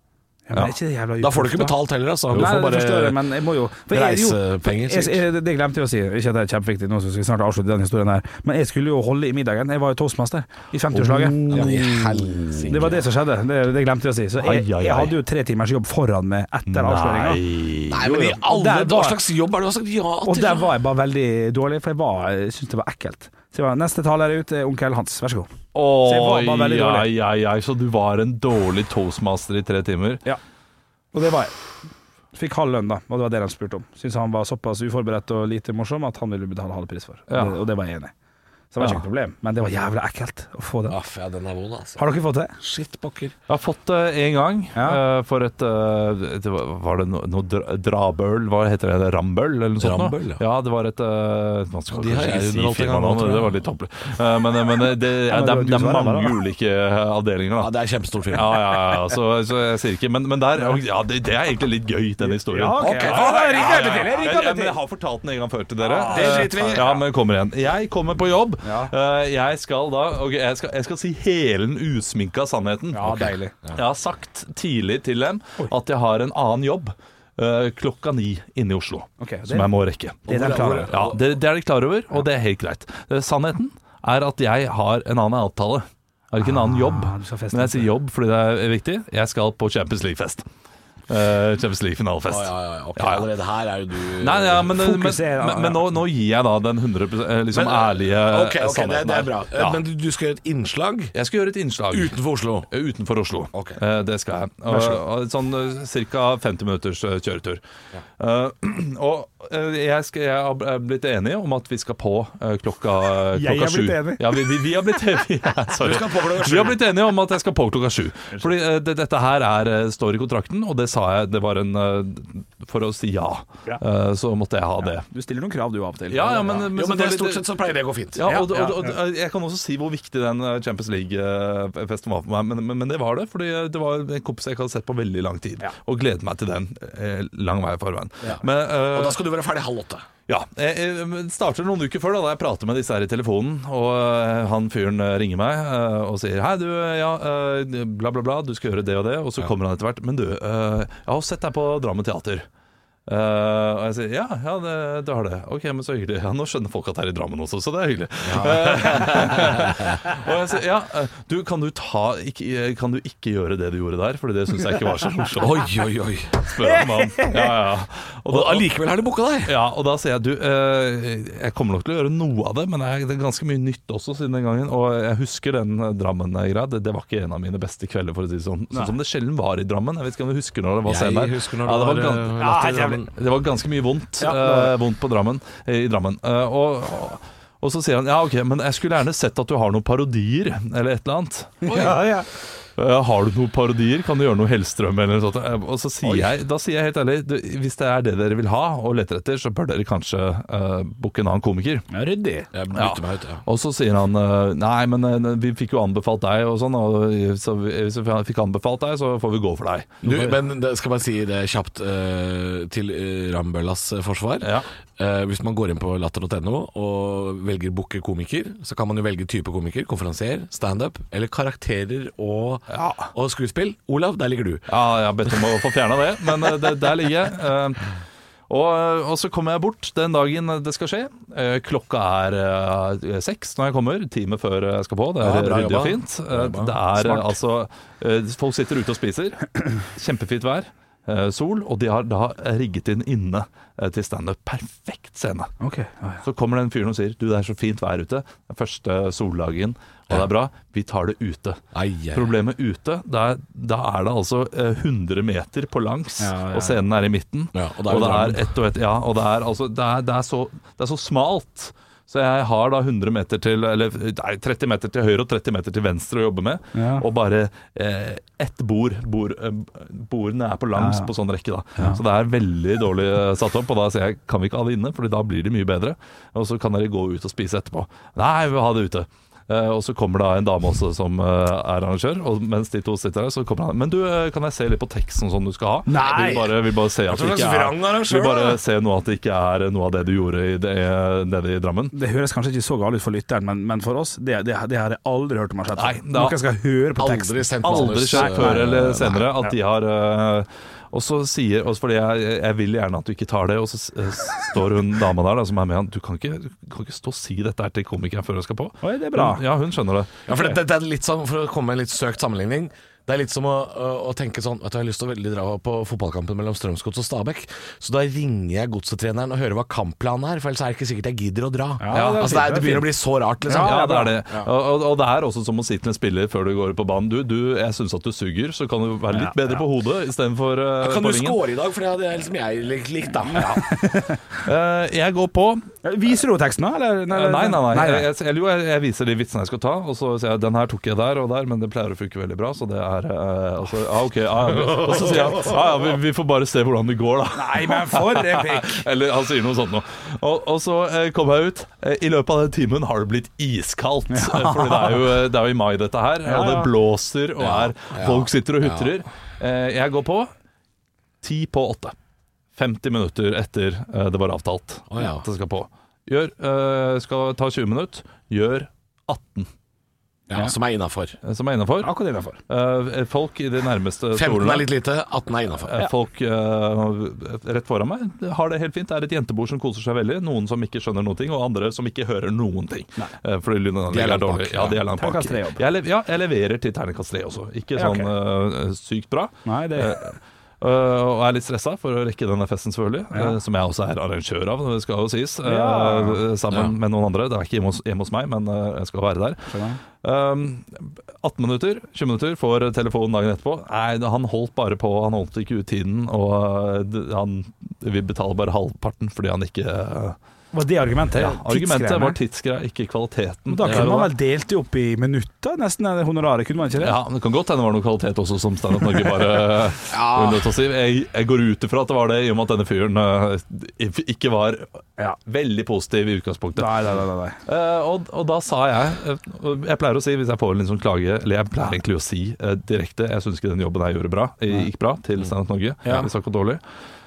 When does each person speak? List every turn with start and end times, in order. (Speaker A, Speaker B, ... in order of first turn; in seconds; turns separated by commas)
Speaker A: 0.5-1.8, Speaker B: 1.2-3.2, Speaker A: 2.3-11.7, Speaker B: 3.9-5.2, Speaker C: 10.9-12.5, Speaker B: 11.5-13.1, Speaker A: 12.7-17.4, Speaker C: 14.4-15.2, Speaker C: 16.7-18.1, Speaker B: 17.9-20.7, Speaker A: 18.0-19.2, Speaker A: 20.2-25.5, Speaker C: 25.7-30.2, Speaker A: 26.0-27.1, Speaker A: 31.1-31.5, Speaker A: 32.3-38.1, Speaker C: 37.3-37.6, Speaker A: 38.7-41.0, Speaker B: 40.9-42.0, Speaker A: 42.0-42.5, Speaker B: 42.6-43.3, Speaker C: 43.5-57.7, Speaker A: 44.7-45.0, Speaker B: 49.8-50.4, Speaker B: 51.9-53.6, Speaker A: 55.3-56.3, Speaker B: 57.6-58.9, Speaker C: 58.3-80.3, Speaker A: 62.2-64.8, Speaker B: 62.8-64.2, Speaker A: 65.8-66.8, Speaker B: 66.1-67.0, Speaker A: 68.6-68.9, Speaker A: 72.9-73.5, Speaker B: 73.0-73.8, Speaker A: 79.2-79.7, Speaker A: 80.2-80.9, Speaker B: 80.3-81.2, Speaker C: 80.9-90.4, Speaker A: 86.4-87.9, Speaker C: 91.1-93.3, Speaker B: 92.3-94.7, Speaker C: 94.2-99.8, Speaker A: 94.8-95.9, Speaker B: 97.5-101.1, Speaker C: 101.1-102.2, Speaker B: 101.9-102.7, Speaker C: 102.7-107.6, Speaker B: 103.5-103.8, Speaker A: 104.7-105.0, Speaker C: 108.2-125.0, Speaker A: 113.3-114.3, Speaker B: 115.8-116.8, Speaker A: 124.8-126.7, Speaker C: 126.1-127.4, Speaker B: 126.6-128.3, Speaker C: 128.1-139.2, Speaker A: 128.2-128.9, Speaker B: 138.8-140.1, Speaker C: 140.3-152.4, Speaker C: 153.1-165.7, Speaker B: 158.2-160.0, Speaker B: 165.4-166.5, Speaker C: 166.4-168.7, Speaker A: 166.7-167.5, Speaker B: 168.3-169.5, Speaker C: 169.4-182.5, Speaker B: 180.8-183.1, Speaker A: 182.4-183.0, Speaker C: 183.1-192.0, Speaker A: 184.2-184.7, Speaker A: 191.6-192.3, Speaker B: 191.7-192.0, Speaker C: 192.8-201.8, Speaker A: 201.9-202.5, Speaker B: 202.5-203.4, Speaker C: 202.7-210.1, Speaker B: 210.0-224.7, Speaker C: 214.4-214.7, Speaker C: 222.7-223.1, Speaker C: 224.7-227.9, Speaker C: 228.5-245.5, Speaker B: 235.2-236.8, Speaker A: 245.6-246.2, Speaker C: 246.2-251.6, Speaker B: 251.7-252.3, Speaker C: 252.1-291.9, Speaker A: 256.2-256.8, Speaker B: 257.5-258.4, Speaker A: 266.7-267.0, Speaker A: 270.7-271.1, Speaker A: 285.9-286.4, Speaker B: 286.0-286.5, Speaker B: 287.1-288.6, Speaker A: 291.9-298.7, Speaker C: 295.8-296.4, Speaker B: 297.0-299.3, Speaker C: 297.6-310.2, Speaker A: 308.8-309.4, Speaker B: 310.3-324.5, Speaker A: 321.8-322.9, Speaker C: 321.9-322.5, Speaker A: 323.5-324.1, Speaker C: 323.5-331.4, Speaker A: 329.1-329.4, Speaker B: 330.8-333.6, Speaker A: 333.5-334.2, Speaker C: 334.3-335.6, Speaker A: 335.8-338.1, Speaker C: 337.1-360.3, Speaker A: 347.3-348.8, Speaker A: 354.1-355.0, Speaker A: 356.2-356.7, Speaker B: 357.4-359.0, Speaker C: 361.2-361.9, Speaker C: 362.6-369.5, Speaker B: 364.9-365.2, Speaker B: 370.3-371.2, Speaker C: 371.2-371.9, Speaker A: 371.8-372.4, Speaker C: 372.5-374.7, Speaker B: 374.1-375.7, Speaker C: 375.6-410.2, Speaker B: 383.9-384.8, Speaker A: 385.0-385.6, Speaker A: 387.8-388.1, Speaker A: 389.4-389.9, Speaker A: 395.4-396.2, Speaker A: 399.5-399.8, Speaker A: 410.5-412.2, Speaker C: 411.1-414.1, Speaker A: 413.5-416.9, Speaker C: 416.8-426.8, Speaker B: 419.9-420.5, Speaker A: 426.6-427.4, Speaker C: 427.4-436.6